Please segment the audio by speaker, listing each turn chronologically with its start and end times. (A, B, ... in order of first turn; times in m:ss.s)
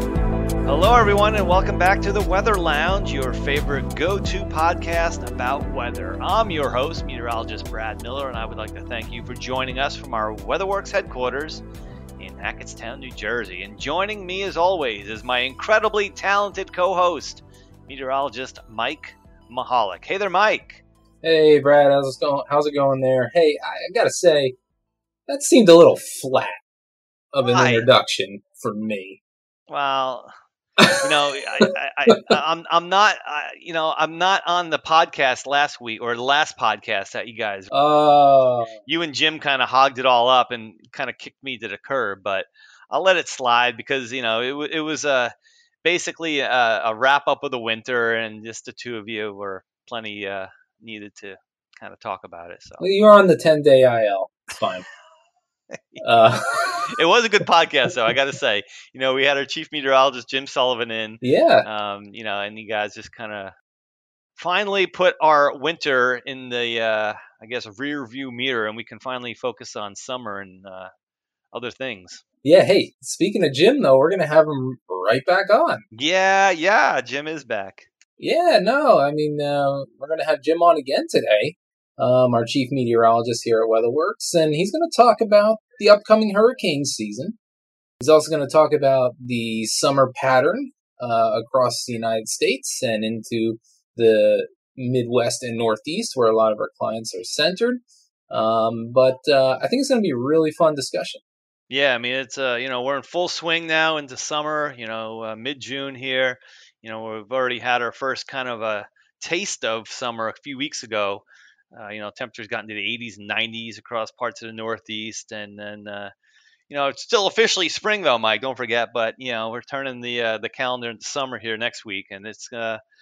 0:00.6-0:11.6 A
0:12.2-0:20.8 A
0:21.2-0:24.6 B
0:25.3-0:26.6 B
0:27.3-0:29.2 B
0:27.4-0:27.9 A
0:29.7-0:30.3 A
0:30.8-0:32.3 B
0:31.0-0:37.7 A
0:37.7-0:38.8 B
0:38.9-0:45.3 A
0:45.8-0:52.8 A
0:52.8-0:54.8 B
0:56.0-0:56.8 B
0:56.8-1:03.5 A
1:01.2-1:01.6 B
1:04.4-1:10.9 A
1:11.5-1:12.2 A
1:12.4-1:15.8 B
1:15.9-1:17.9 A
1:18.2-1:27.4 B
1:28.0-1:41.2 B
1:41.7-1:56.1 A
1:56.7-2:02.8 A